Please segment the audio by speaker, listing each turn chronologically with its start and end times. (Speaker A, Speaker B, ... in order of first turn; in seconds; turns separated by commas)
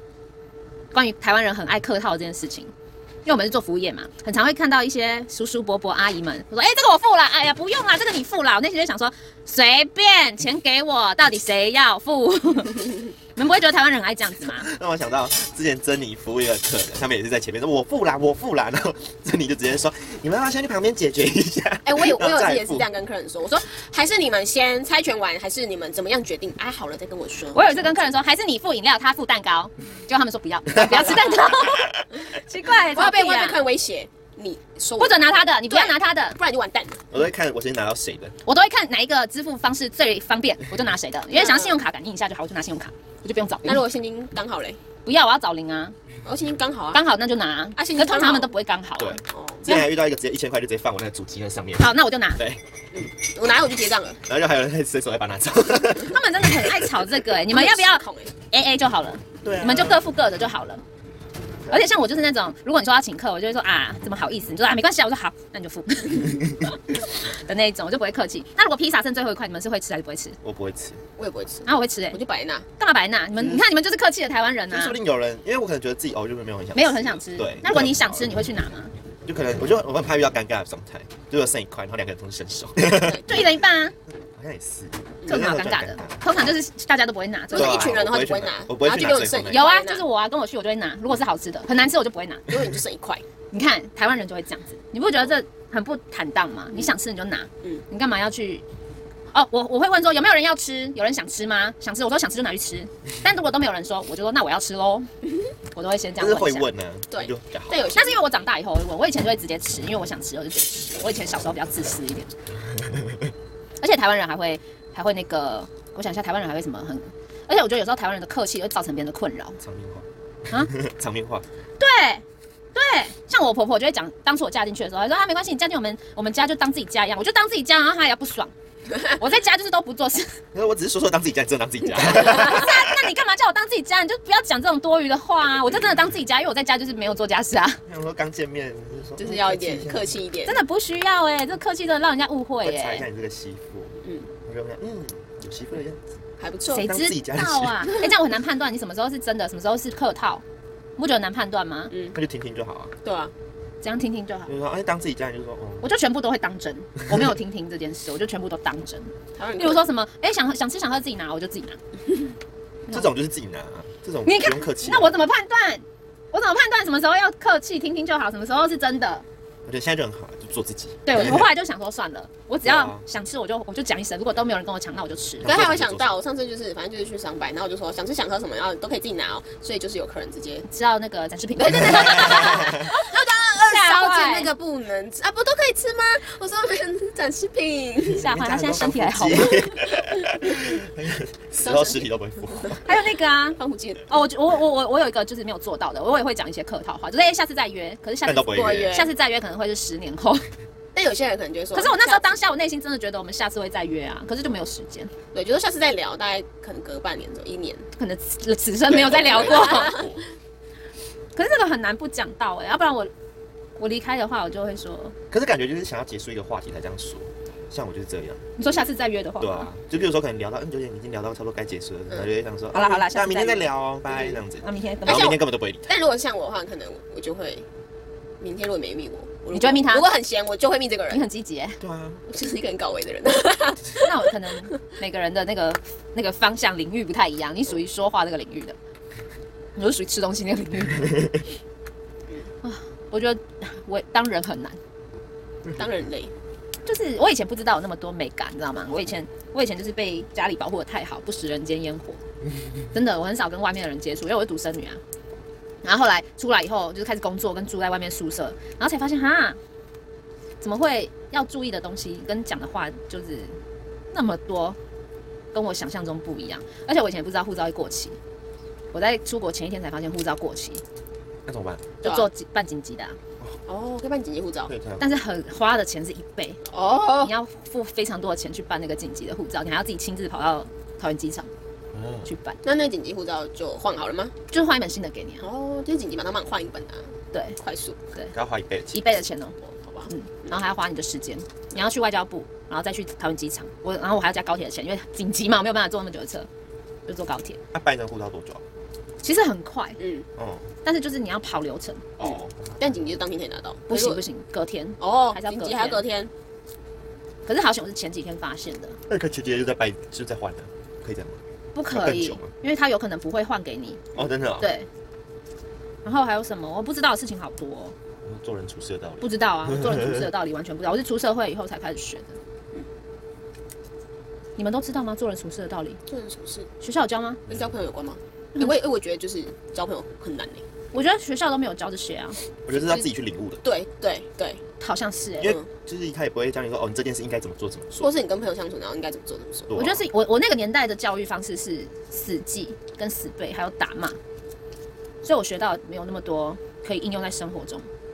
Speaker A: 0.9-2.7, Speaker A: 3.2-14.7, Speaker B: 14.5-22.9, Speaker C: 21.8-28.0, Speaker A: 27.5-33.6, Speaker C: 30.8-31.5, Speaker C: 32.8-37.0, Speaker A: 35.0-36.4, Speaker B: 37.1-38.3, Speaker A: 38.4-43.8, Speaker C: 41.3-41.8, Speaker C: 43.6-44.8, Speaker A: 45.0-46.0, Speaker C: 46.2-47.0, Speaker A: 46.9-49.9, Speaker C: 47.8-48.5, Speaker B: 49.0-52.6, Speaker C: 49.3-49.7, Speaker A: 51.8-52.4, Speaker C: 52.9-54.2, Speaker B: 54.2-56.9, Speaker A: 56.0-60.8, Speaker C: 57.5-58.3, Speaker B: 59.4-60.0, Speaker A: 61.7-70.4, Speaker B: 70.4-71.0, Speaker C: 71.2-72.7, Speaker A: 71.7-72.2, Speaker A: 72.8-75.0, Speaker B: 74.7-78.3, Speaker A: 76.7-78.9, Speaker B: 79.2-83.5, Speaker C: 83.0-83.5, Speaker A: 83.2-83.9, Speaker B: 84.3-86.2, Speaker A: 85.2-87.9, Speaker C: 87.5-90.0, Speaker B: 87.5-89.6, Speaker A: 89.5-92.5, Speaker C: 92.5-93.2, Speaker A: 93.5-98.6, Speaker A: 99.3-105.1, Speaker A: 105.7-106.7, Speaker B: 106.2-107.8, Speaker C: 107.1-108.4, Speaker A: 107.9-112.3, Speaker A: 113.8-119.6, Speaker B: 119.6-121.4, Speaker A: 121.8-122.2, Speaker A: 122.7-130.3, Speaker B: 130.5-133.0, Speaker C: 131.9-132.6, Speaker A: 132.3-137.8, Speaker B: 137.9-140.1, Speaker C: 139.2-140.6, Speaker A: 140.4-143.1, Speaker B: 142.6-146.0, Speaker C: 144.0-144.3, Speaker C: 146.4-146.9, Speaker A: 146.7-150.4, Speaker B: 146.7-147.9, Speaker A: 151.0-151.9, Speaker C: 151.9-152.2, Speaker B: 152.1-152.9, Speaker C: 153.0-153.3, Speaker A: 153.8-154.5, Speaker B: 154.5-155.9, Speaker A: 155.8-161.8, Speaker C: 159.3-159.8, Speaker B: 162.9-165.2, Speaker A: 164.2-169.2, Speaker B: 169.7-171.5, Speaker A: 171.1-175.5, Speaker B: 172.6-173.0, Speaker B: 175.4-176.2, Speaker C: 175.4-180.7, Speaker A: 180.7-184.5, Speaker C: 181.6-188.3, Speaker B: 188.1-192.8, Speaker A: 188.2-189.7, Speaker C: 191.6-192.1, Speaker C: 192.6-192.9, Speaker A: 192.8-200.5, Speaker C: 193.6-194.2, Speaker B: 198.2-199.0, Speaker C: 198.5-199.1, Speaker C: 200.9-202.3, Speaker A: 201.7-205.1, Speaker C: 205.3-207.9, Speaker A: 207.9-210.0, Speaker B: 208.9-210.2, Speaker C: 208.9-210.1, Speaker A: 211.3-213.1, Speaker A: 213.8-215.1, Speaker B: 215.3-218.4, Speaker A: 218.6-219.7, Speaker B: 219.4-225.9, Speaker A: 222.7-223.7, Speaker C: 224.1-224.4, Speaker A: 224.6-225.4, Speaker C: 225.0-227.7, Speaker C: 228.4-231.2, Speaker A: 229.5-230.1, Speaker A: 231.1-231.8, Speaker B: 231.8-232.2, Speaker C: 232.3-234.3, Speaker A: 233.9-238.8, Speaker A: 239.8-241.3, Speaker A: 242.6-244.8, Speaker C: 245.7-246.3, Speaker A: 246.8-252.2, Speaker A: 252.9-255.0, Speaker A: 255.8-259.6, Speaker A: 260.6-263.6, Speaker A: 264.1-264.8, Speaker A: 265.5-268.2, Speaker A: 268.9-270.8, Speaker B: 271.4-271.9, Speaker C: 272.0-272.3, Speaker A: 272.0-273.2, Speaker C: 273.6-274.7, Speaker B: 274.7-275.0, Speaker A: 275.0-276.6, Speaker C: 276.6-277.3, Speaker A: 277.1-281.5, Speaker B: 281.9-282.3, Speaker A: 282.2-282.6, Speaker C: 282.6-284.3, Speaker A: 284.5-285.4, Speaker C: 285.4-288.0, Speaker A: 287.3-287.6, Speaker B: 288.3-289.1, Speaker A: 288.9-289.6, Speaker C: 289.6-290.6, Speaker A: 290.1-296.5, Speaker A: 297.1-297.6, Speaker B: 297.7-298.6, Speaker A: 299.2-300.0, Speaker C: 300.0-300.3, Speaker B: 300.4-300.7, Speaker A: 300.8-302.1, Speaker B: 302.2-303.1, Speaker C: 302.8-304.2, Speaker A: 303.9-306.0, Speaker C: 305.0-306.3, Speaker A: 307.4-309.0, Speaker B: 309.1-311.4, Speaker A: 311.7-314.0, Speaker B: 311.9-312.5, Speaker B: 314.1-314.7, Speaker A: 314.6-314.9, Speaker A: 316.0-317.9, Speaker B: 318.2-320.2, Speaker A: 319.2-322.3, Speaker A: 324.6-326.0, Speaker C: 326.1-326.7, Speaker A: 326.8-327.4, Speaker C: 327.5-330.6, Speaker A: 330.9-332.4, Speaker B: 332.7-333.6, Speaker C: 332.7-333.1, Speaker C: 333.6-334.6, Speaker A: 334.8-335.6, Speaker B: 335.4-338.1, Speaker C: 338.0-339.7, Speaker B: 339.7-340.0, Speaker A: 339.7-344.2, Speaker A: 345.2-347.9